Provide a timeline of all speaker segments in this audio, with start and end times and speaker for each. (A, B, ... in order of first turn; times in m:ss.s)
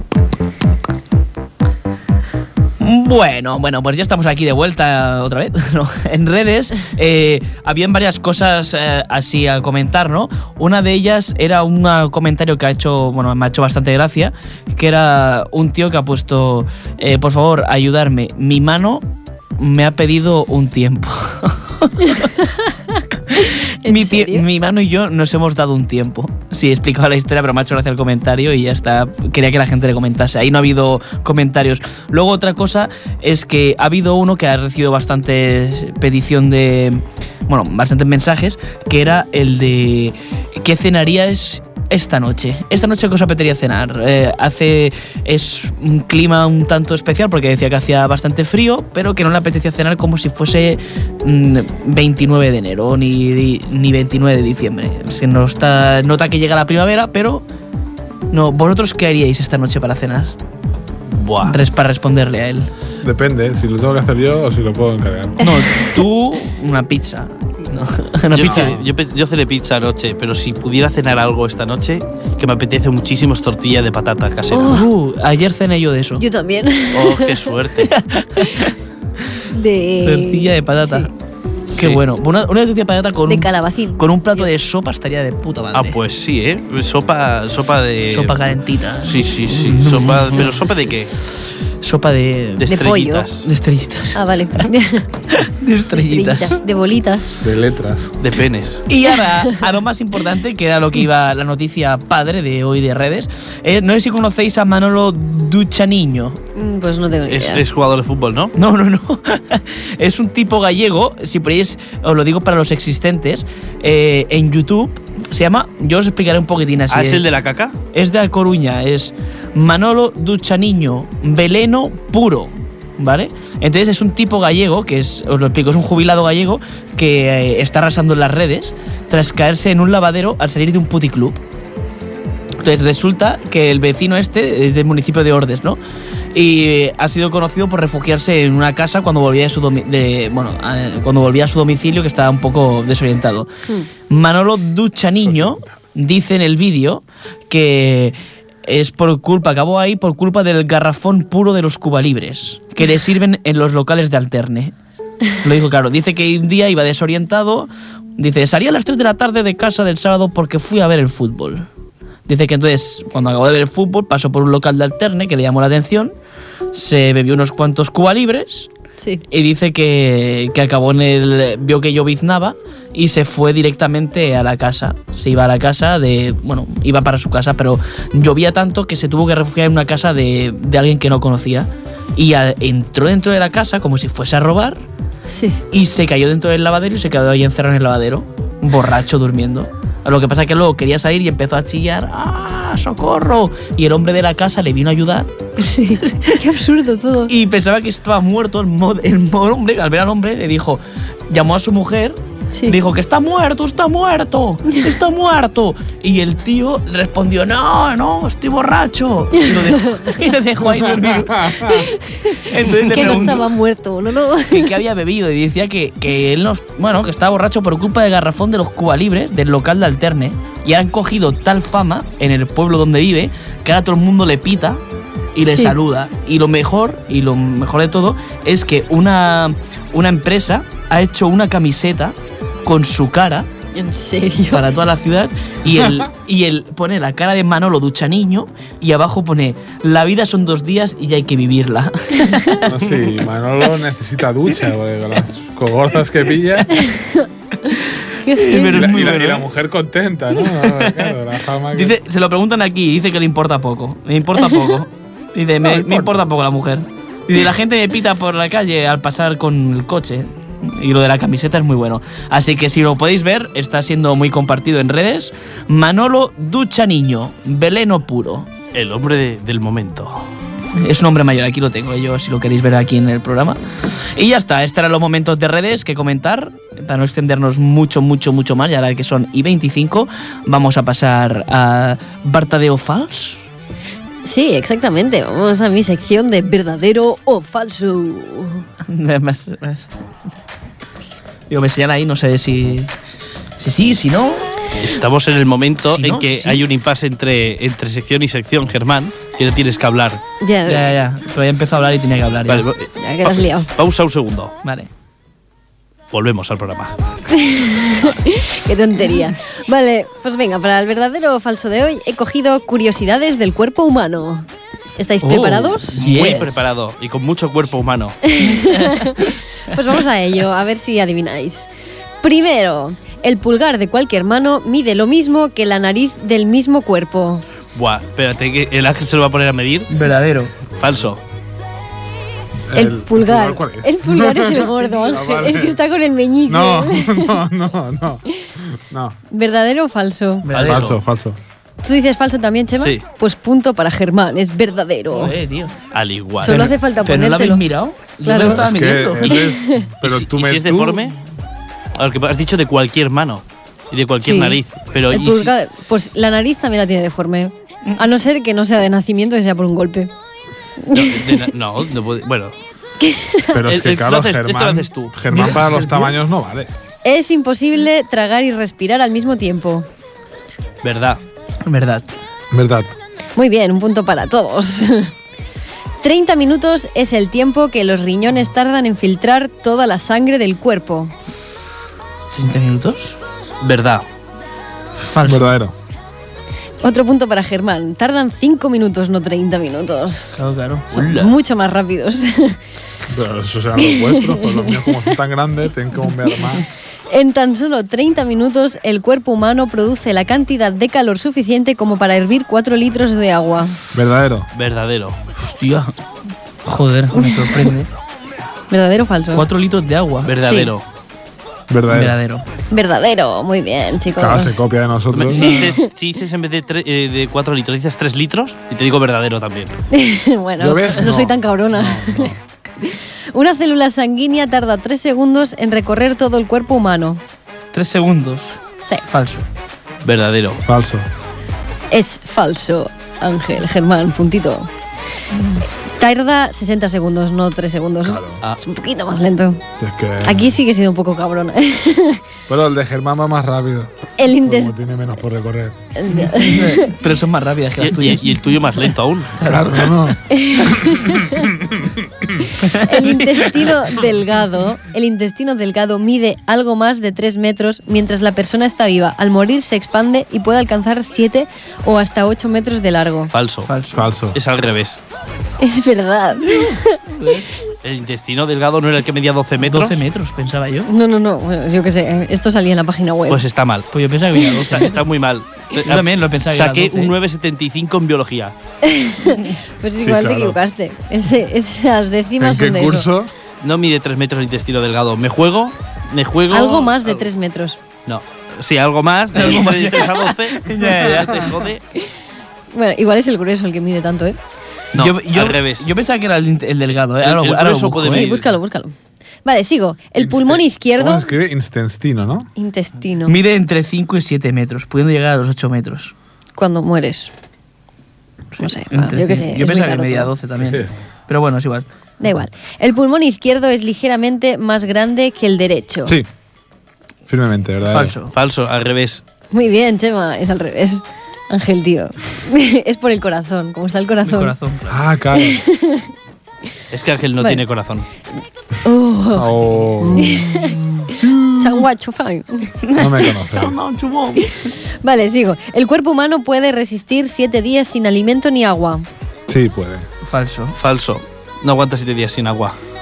0:02.8-0:19.0 A
0:19.6-0:22.0 A
0:22.2-0:24.4 B
0:23.3-0:57.4 A
0:58.3-1:00.4 A
1:01.2-1:01.6 C
1:01.4-1:02.7 A
1:03.0-1:05.4 D
1:05.4-1:08.8 A
1:08.3-1:14.8 C
1:08.4-1:08.9 D
1:14.5-1:14.9 B
1:14.7-1:16.2 A
1:16.2-1:17.5 B
1:16.9-1:17.9 C
1:17.9-1:18.7 A
1:19.5-1:21.1 B
1:20.0-1:21.1 A
1:21.7-1:26.0 A
1:23.3-1:24.5 B
1:25.7-1:28.4 C
1:28.1-1:32.7 A
1:29.0-1:31.1 C
1:32.6-1:33.5 C
1:32.7-1:33.3 B
1:33.4-1:34.6 A
1:34.1-1:35.0 B
1:35.3-1:36.6 A
1:35.9-1:37.4 B
1:37.4-1:38.1 D
1:38.2-1:38.9 C
1:38.9-1:46.4 A
1:46.6-1:47.6 B
1:47.3-1:48.5 C
1:48.6-1:57.2 A
1:56.9-1:57.8 C
1:57.9-2:11.4 A
2:12.6-2:15.8 A
2:16.3-2:23.5 A
2:24.1-2:34.7 A
2:25.2-2:25.7 D
2:35.4-2:41.7 A
2:42.3-2:46.1 A
2:46.7-2:48.7 A
2:49.3-3:04.8 A
3:05.3-3:05.6 B
3:05.7-3:15.5 A
3:15.6-3:17.3 B
3:16.0-3:16.4 A
3:17.3-3:31.7 A
3:22.5-3:22.8 B
3:29.5-3:30.1 B
3:30.6-3:31.9 D
3:31.7-3:34.8 B
3:32.4-3:33.5 A
3:34.5-3:44.8 A
3:45.4-3:53.5 A
3:45.4-3:45.8 B
3:53.8-3:54.7 B
3:54.5-4:02.9 A
3:55.7-3:56.1 D
4:02.2-4:02.6 B
4:02.6-4:06.8 D
4:06.8-4:07.3 B
4:07.6-4:09.5 A
4:08.2-4:08.8 B
4:08.7-4:12.0 D
4:10.4-4:11.2 A
4:11.7-4:28.5 A
4:14.4-4:14.7 B
4:15.6-4:16.2 D
4:28.7-4:30.2 C
4:30.8-4:43.5 A
4:44.2-4:48.6 B
4:48.9-4:49.9 A
4:51.5-4:52.9 A
4:53.6-4:54.5 A
4:54.8-5:00.2 C
4:55.8-4:56.6 A
5:00.4-5:00.9 B
5:00.7-5:02.7 A
5:02.5-5:04.5 C
5:03.0-5:03.7 B
5:04.6-5:04.9 A
5:06.1-5:07.0 C
5:07.4-5:16.3 B
5:15.2-5:16.8 A
5:16.0-5:18.2 C
5:18.3-5:21.7 B
5:18.5-5:19.7 A
5:22.2-5:27.4 B
5:27.8-5:29.9 C
5:29.9-5:30.5 A
5:30.8-5:31.2 C
5:32.7-5:35.8 D
5:32.7-5:37.4 B
5:36.5-5:39.2 D
5:39.3-5:40.5 B
5:40.4-5:40.9 A
5:40.5-5:41.0 C
5:40.6-5:41.4 D
5:41.8-5:45.4 B
5:42.8-5:43.0 C
5:45.1-5:45.8 A
5:45.9-5:46.7 C
5:46.4-5:47.6 B
5:46.4-5:49.4 A
5:48.2-5:48.6 B
5:48.4-5:51.2 D
5:49.2-5:49.7 B
5:50.0-5:51.2 C
5:52.0-5:55.5 C
5:54.2-5:54.6 B
5:55.1-6:00.1 B
6:00.9-6:01.5 B
6:00.9-6:02.6 C
6:03.0-6:03.6 B
6:03.5-6:06.7 D
6:03.7-6:05.1 C
6:05.3-6:06.1 A
6:07.0-6:09.9 B
6:10.8-6:11.2 C
6:11.7-6:12.1 A
6:12.5-6:12.9 D
6:13.4-6:15.1 B
6:16.0-6:21.1 B
6:22.3-6:23.2 A
6:23.6-6:24.0 C
6:25.0-6:25.5 A
6:25.2-6:25.7 D
6:26.8-6:30.4 B
6:30.4-6:31.1 A
6:30.9-6:32.6 B
6:31.0-6:31.3 C
6:33.1-6:36.6 D
6:33.8-6:35.0 B
6:37.1-6:43.8 B
6:43.9-6:44.5 D
6:44.5-6:45.2 C
6:45.4-6:46.0 A
6:46.6-6:47.9 A
6:47.2-6:47.7 B
6:48.7-6:49.4 B
6:49.3-6:50.3 A
6:50.3-6:50.8 C
6:50.4-6:50.7 B
6:51.7-6:52.2 D
6:51.9-6:52.4 A
6:52.7-6:54.6 B
6:54.2-6:55.6 D
6:55.1-6:59.8 C
6:55.4-6:55.8 B
6:59.9-7:07.2 B
7:00.6-7:02.4 D
7:07.7-7:09.4 A
7:10.0-7:10.6 C
7:10.6-7:11.1 D
7:11.9-7:14.7 B
7:15.3-7:15.6 A
7:16.0-7:19.6 B
7:18.0-7:18.4 D
7:19.8-7:20.6 D
7:20.2-7:22.2 B
7:22.5-7:25.8 D
7:24.2-7:24.7 B
7:26.0-7:26.9 B
7:26.1-7:28.4 A
7:27.8-7:29.4 C
7:29.4-7:30.1 A
7:29.4-7:32.5 D
7:30.3-7:31.5 B
7:32.6-7:33.6 A
7:32.7-7:43.3 B
7:43.3-7:43.7 C
7:43.7-7:44.1 A
7:43.9-7:44.4 D
7:44.3-7:45.0 C
7:45.6-7:47.0 B
7:46.4-7:47.5 A
7:47.8-7:50.0 C
7:49.6-7:50.9 A
7:50.9-7:53.4 B
7:53.3-7:53.9 C
7:53.9-7:55.0 A
7:54.6-7:58.5 C
7:55.7-7:57.1 A
7:58.8-8:03.1 B
8:00.0-8:00.6 D
8:02.4-8:03.3 D
8:03.6-8:07.3 C
8:06.5-8:07.8 B
8:08.1-8:11.8 C
8:09.3-8:11.5 A
8:12.7-8:14.4 B
8:14.9-8:18.3 A
8:15.0-8:15.9 C
8:17.2-8:18.5 C
8:18.1-8:18.9 B
8:19.4-8:21.3 B
8:20.2-8:22.5 D
8:22.6-8:23.4 B
8:23.2-8:26.1 A
8:26.6-8:27.3 B
8:28.6-8:30.3 B
8:28.9-8:31.9 A
8:30.6-8:30.9 D
8:32.2-8:36.2 B
8:37.3-8:38.2 D
8:37.8-8:38.3 A
8:38.3-8:39.2 C
8:39.5-8:44.6 B
8:44.2-8:45.0 A
8:44.9-8:45.6 D
8:45.4-8:46.1 B
8:46.9-8:48.0 C
8:48.8-8:49.5 B
8:49.3-8:51.9 D
8:50.1-8:50.7 B
8:51.6-8:52.7 B
8:52.8-8:54.7 A
8:53.0-8:53.8 D
8:55.0-8:59.1 B
8:59.5-9:00.0 D
9:00.2-9:00.8 A
9:00.8-9:02.8 C